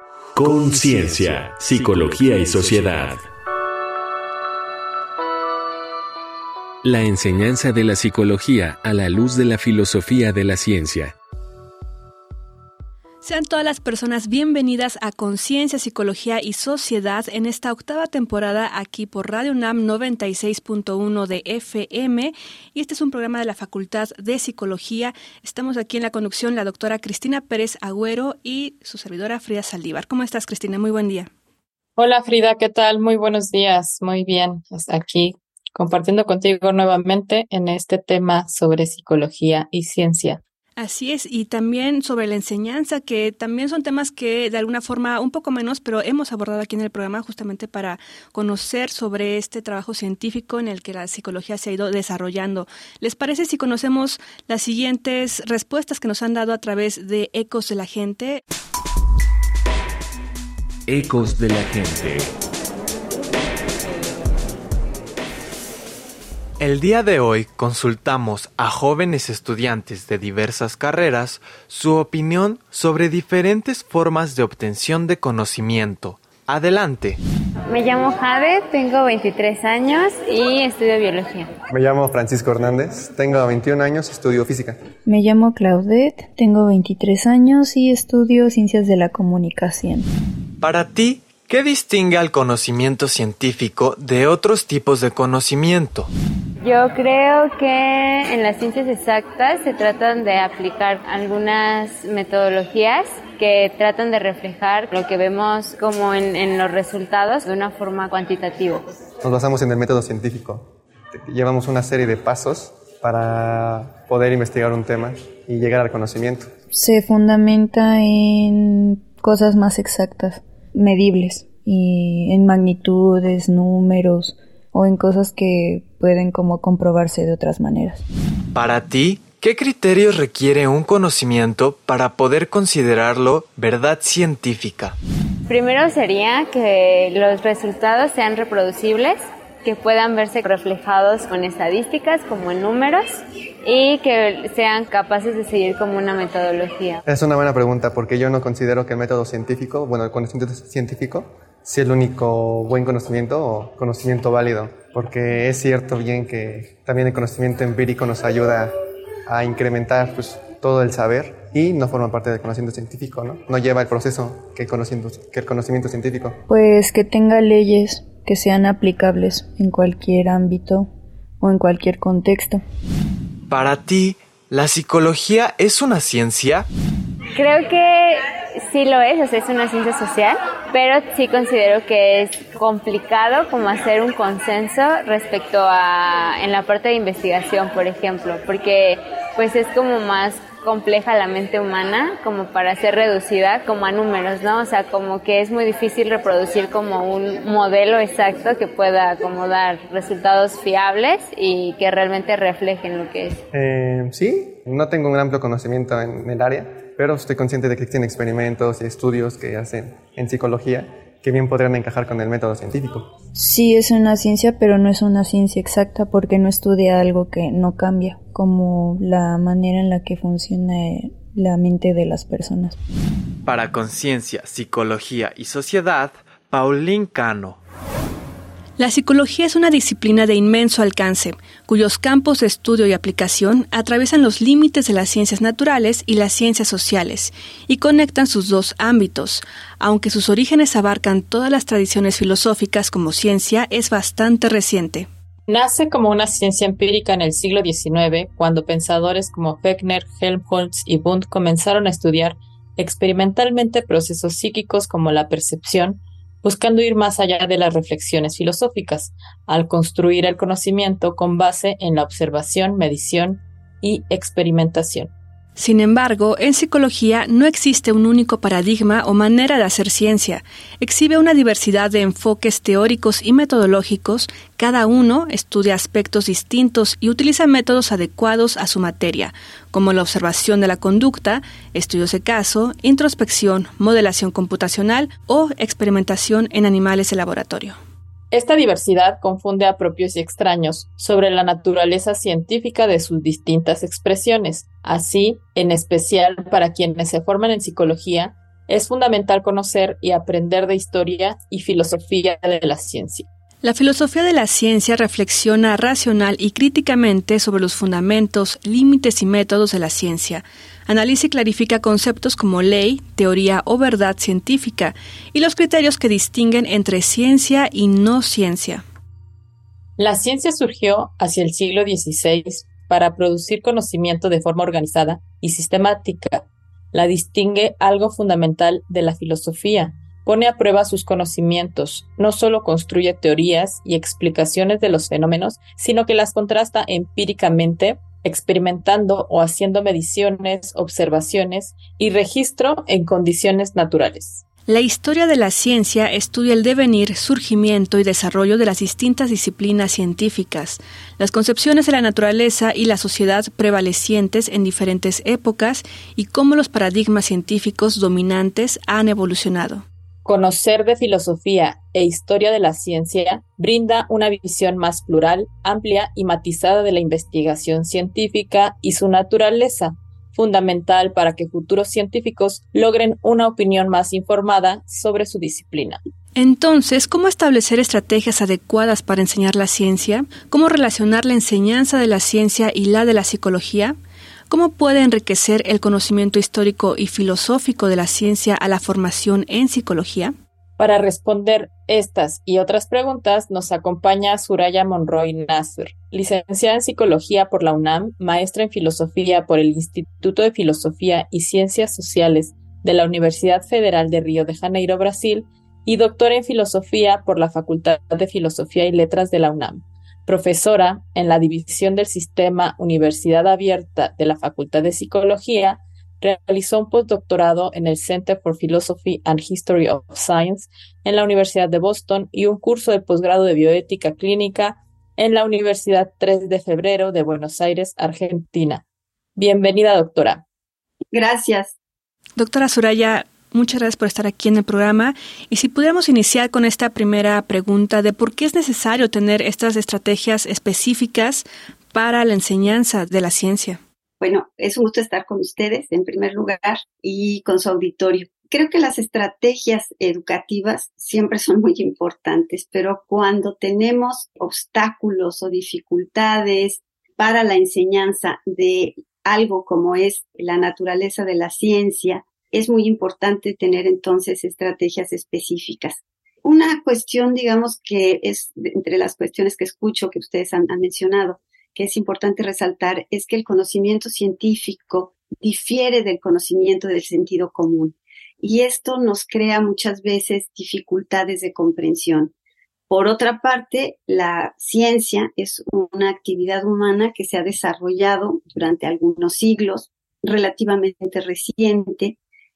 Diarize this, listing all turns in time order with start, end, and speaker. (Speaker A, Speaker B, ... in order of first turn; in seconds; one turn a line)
Speaker A: 0.3-3.2
Speaker A: 6.8-11.1
Speaker B: 13.2-31.3
Speaker C: 32.0-40.4
Speaker B: 40.8-58.4
Speaker A: 60.9-62.3
Speaker D: 66.6-77.2
Speaker E: 77.7-81.5
Speaker F: 81.7-84.8
Speaker G: 85.0-90.1
Speaker D: 90.6-96.1
Speaker E: 96.6-108.8
Speaker F: 109.2-110.7
Speaker F: 111.2-116.5
Speaker G: 116.7-128.0
Speaker D: 128.5-135.0
Speaker E: 135.5-147.0
Speaker F: 147.1-158.7
Speaker F: 159.3-166.4
Speaker G: 166.5-172.6
Speaker D: 173.5-176.7
Speaker E: 177.3-203.4
Speaker F: 203.5-213.1
Speaker G: 213.3-222.8
Speaker D: 223.4-227.6
Speaker B: 228.8-245.1
Speaker C: 245.5-265.1
Speaker B: 265.6-287.8
Speaker C: 288.3-303.3
Speaker B: 303.6-318.8
Speaker C: 320.0-344.4
Speaker B: 344.7-359.9
Speaker C: 360.2-376.0
Speaker B: 376.4-383.9
Speaker B: 384.5-390.3
Speaker C: 390.8-428.8
Speaker C: 429.4-430.4
Speaker H: 431.1-431.7
Speaker B: 432.4-443.8
Speaker H: 444.2-482.3
Speaker H: 482.9-492.2